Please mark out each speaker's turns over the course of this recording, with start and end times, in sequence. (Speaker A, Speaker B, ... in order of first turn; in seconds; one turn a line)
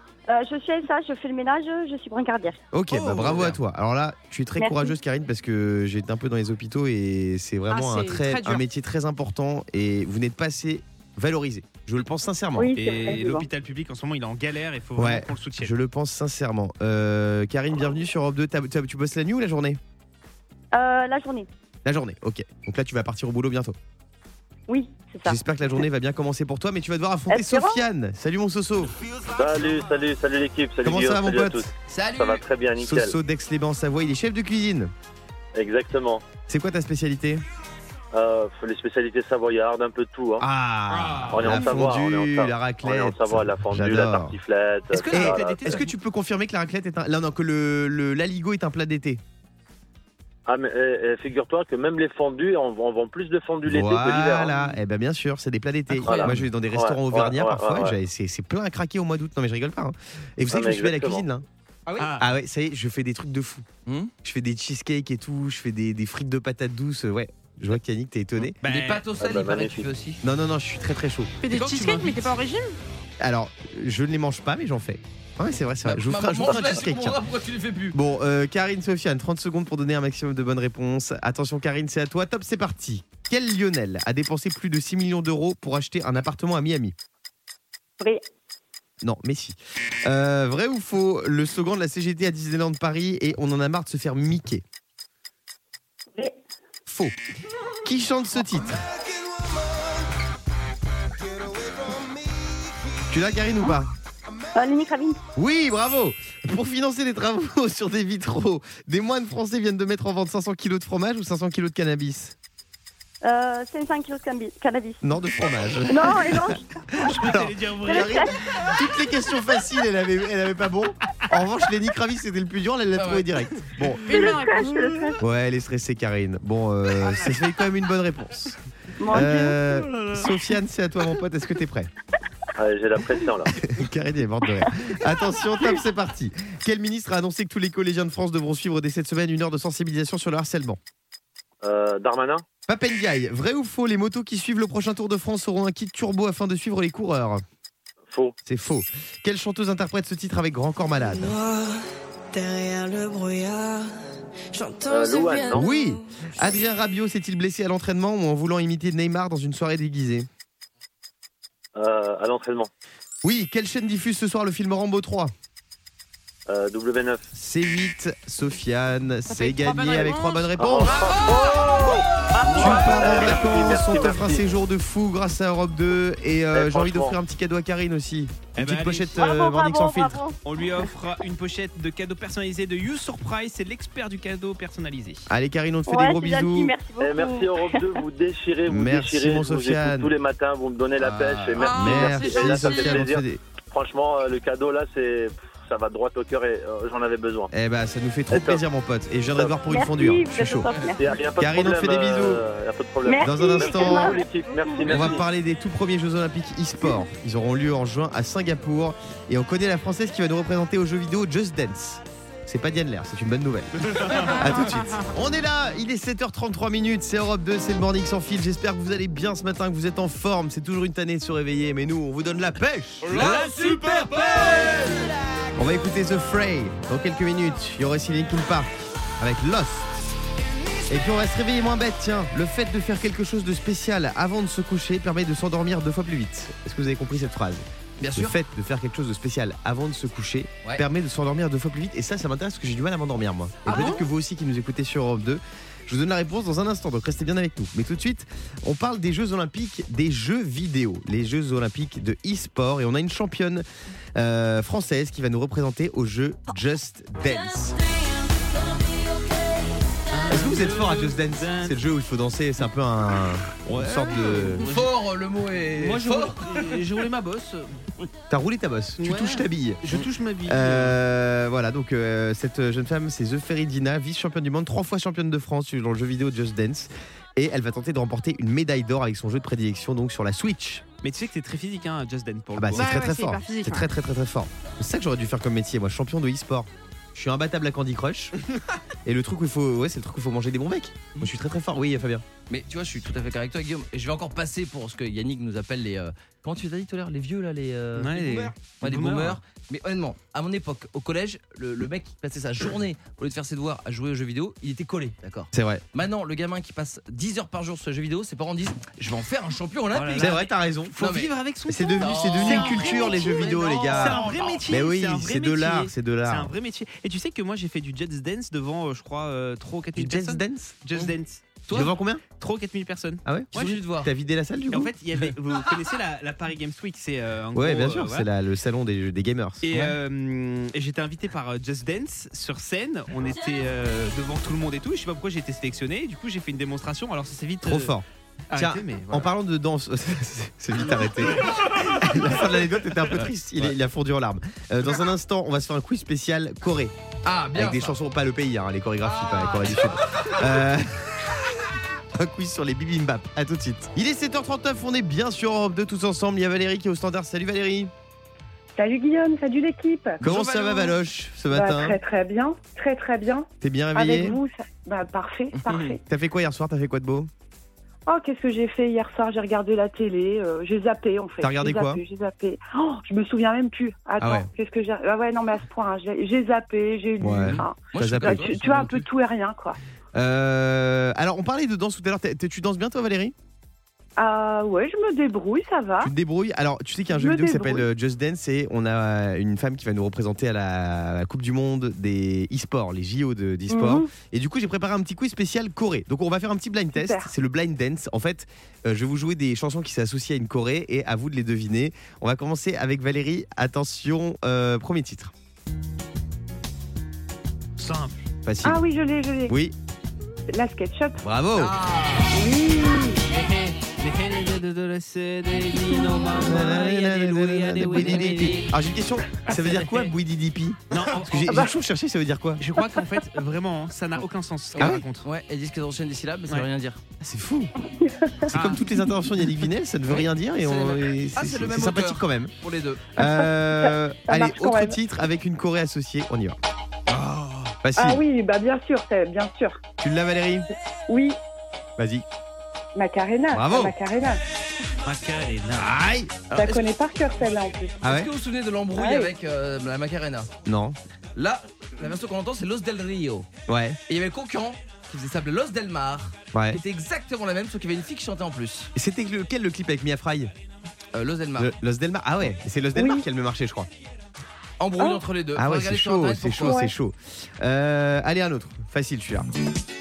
Speaker A: 0.3-2.6
Speaker B: 2.7-12.7
Speaker C: 2.9-3.6
Speaker A: 4.6-4.9
Speaker D: 7.7-8.6
Speaker C: 12.8-15.7
Speaker E: 12.8-13.3
Speaker F: 12.9-13.4
Speaker B: 14.9-19.8
Speaker A: 20.7-21.5
Speaker B: 21.8-23.8
Speaker A: 24.7-25.4
Speaker B: 25.2-28.9
Speaker A: 27.3-27.8
Speaker G: 29.3-33.1
Speaker B: 30.8-31.7
Speaker H: 31.9-32.4
Speaker B: 32.8-34.9
Speaker G: 35.5-36.2
Speaker B: 36.5-37.4
Speaker G: 38.1-40.5
Speaker B: 40.4-44.4
Speaker C: 40.9-41.7
Speaker G: 41.3-45.8
Speaker C: 44.9-45.9
Speaker B: 45.1-49.2
Speaker G: 50.5-54.7
Speaker B: 53.6-61.5
Speaker H: 56.0-56.4
Speaker G: 56.0-57.9
Speaker G: 60.5-61.2
Speaker H: 61.9-62.1
Speaker C: 62.0-62.3
Speaker B: 62.2-63.7
Speaker H: 63.9-64.1
Speaker B: 64.2-68.5
Speaker C: 68.6-69.0
Speaker H: 68.6-70.2
Speaker G: 69.2-69.9
Speaker B: 70.2-71.3
Speaker D: 71.4-72.7
Speaker C: 71.5-72.3
Speaker B: 73.2-77.2
Speaker H: 75.8-78.0
Speaker B: 77.9-86.9
Speaker B: 89.0-94.6
Speaker B: 96.8-97.1
Speaker B: 97.8-98.8
Speaker B: 103.1-103.9
Speaker A: 104.5-105.2
Speaker B: 105.3-112.3
Speaker A: 113.2-115.0
Speaker B: 115.0-124.2
Speaker A: 115.9-116.6
Speaker C: 117.0-118.8
Speaker A: 117.9-118.3
Speaker H: 122.9-123.3
Speaker D: 124.0-124.9
Speaker A: 124.1-125.2
Speaker B: 125.2-128.6
Speaker F: 129.0-129.6
Speaker B: 129.1-131.9
Speaker C: 129.7-130.4
Speaker G: 132.6-133.5
Speaker B: 133.5-140.8
Speaker G: 141.6-142.4
Speaker B: 142.7-147.4
Speaker G: 148.1-148.3
Speaker B: 148.4-151.3
Speaker E: 152.3-153.8
Speaker E: 154.5-155.6
Speaker G: 154.9-155.7
Speaker B: 155.5-160.3
Speaker G: 161.8-162.7
Speaker B: 163.2-165.3
Speaker G: 166.5-167.3
Speaker B: 167.3-171.1
Speaker D: 169.3-170.5
Speaker G: 170.6-174.4
Speaker C: 172.4-173.8
Speaker B: 172.5-180.3
Speaker G: 176.5-177.2
Speaker C: 178.5-179.3
Speaker A: 179.1-180.3
Speaker C: 180.4-185.3
Speaker B: 185.3-186.8
Speaker A: 185.9-188.0
Speaker G: 187.0-197.5
Speaker B: 188.7-190.1
Speaker H: 191.0-191.7
Speaker D: 191.6-193.1
Speaker B: 191.7-193.4
Speaker B: 197.5-200.7
Speaker G: 198.3-198.6
Speaker A: 199.7-201.0
Speaker H: 200.7-200.9
Speaker G: 200.9-205.2
Speaker B: 201.3-202.4
Speaker A: 203.1-205.0
Speaker B: 203.2-204.2
Speaker B: 204.9-223.3
Speaker C: 213.8-214.4
Speaker D: 214.3-215.0
Speaker H: 223.1-225.1
Speaker C: 223.2-224.3
Speaker B: 225.6-229.9
Speaker B: 230.9-253.6
Speaker H: 238.0-238.3
Speaker H: 243.7-244.0
Speaker B: 254.2-257.8
Speaker C: 260.1-261.8
Speaker B: 260.3-264.7
Speaker C: 263.6-264.9
Speaker H: 264.6-266.8
Speaker C: 265.8-267.8
Speaker B: 268.3-269.8
Speaker C: 269.0-271.0
Speaker B: 270.4-280.8
Speaker C: 281.0-283.0
Speaker B: 282.6-288.3
Speaker D: 282.7-283.9
Speaker B: 289.0-292.2
Speaker H: 292.5-310.4
Speaker C: 297.9-299.4
Speaker B: 305.5-305.8
Speaker C: 309.9-321.8
Speaker B: 310.2-310.9
Speaker H: 311.0-311.3
Speaker B: 311.7-316.5
Speaker H: 312.0-314.6
Speaker B: 319.9-320.8
Speaker B: 321.7-322.2
Speaker C: 322.4-323.8
Speaker B: 323.2-324.9
Speaker H: 323.5-324.1
Speaker C: 324.7-328.3
Speaker B: 327.5-329.9
Speaker C: 329.6-337.9
Speaker B: 337.6-346.9
Speaker C: 338.5-339.3
Speaker C: 341.3-342.6
Speaker H: 347.2-347.9
Speaker B: 347.5-351.4
Speaker H: 349.0-350.6
Speaker B: 352.1-357.9
Speaker F: 358.8-360.2
Speaker B: 360.2-362.0
Speaker H: 360.2-360.7
Speaker F: 361.5-366.0
Speaker B: 363.6-364.4
Speaker H: 365.5-366.0
Speaker B: 366.1-367.3
Speaker F: 368.1-379.8
Speaker B: 371.4-372.0
Speaker B: 374.2-374.5
Speaker B: 377.2-378.5
Speaker H: 377.4-379.1
Speaker B: 380.1-383.3
Speaker F: 384.2-386.1
Speaker B: 386.0-405.3
Speaker F: 387.1-387.9
Speaker F: 393.7-394.1
Speaker F: 396.9-397.3
Speaker C: 407.8-408.2
Speaker B: 408.4-408.8
Speaker F: 408.6-409.6
Speaker B: 409.5-409.8
Speaker F: 410.5-411.2
Speaker B: 411.2-411.8
Speaker H: 411.6-412.4
Speaker F: 412.3-413.2
Speaker C: 413.3-418.7
Speaker B: 416.4-422.6
Speaker H: 417.9-418.5
Speaker H: 419.5-419.9
Speaker C: 420.9-421.7
Speaker C: 422.6-425.2
Speaker H: 424.8-427.0
Speaker B: 424.8-425.0
Speaker B: 427.2-427.7
Speaker F: 428.0-428.5
Speaker B: 428.5-432.5
Speaker C: 428.5-428.8
Speaker H: 430.1-433.1
Speaker B: 433.1-436.6
Speaker F: 433.2-435.0
Speaker C: 437.1-437.7
Speaker B: 437.8-438.2
Speaker F: 438.0-439.8
Speaker B: 440.0-440.7
Speaker F: 441.1-441.4
Speaker B: 442.0-442.2
Speaker F: 442.9-444.4
Speaker B: 443.5-443.9
Speaker C: 445.0-445.9
Speaker B: 445.7-446.7
Speaker F: 446.5-447.9
Speaker B: 448.0-448.3
Speaker H: 448.0-450.5
Speaker F: 448.9-449.3
Speaker B: 450.6-451.0
Speaker H: 451.3-453.5
Speaker B: 453.7-454.0
Speaker H: 454.1-458.9
Speaker B: 456.5-456.8
Speaker B: 458.9-460.5
Speaker H: 461.1-461.7
Speaker B: 461.6-463.9
Speaker F: 462.9-463.2
Speaker H: 464.8-466.8
Speaker B: 465.5-469.5
Speaker F: 466.6-466.9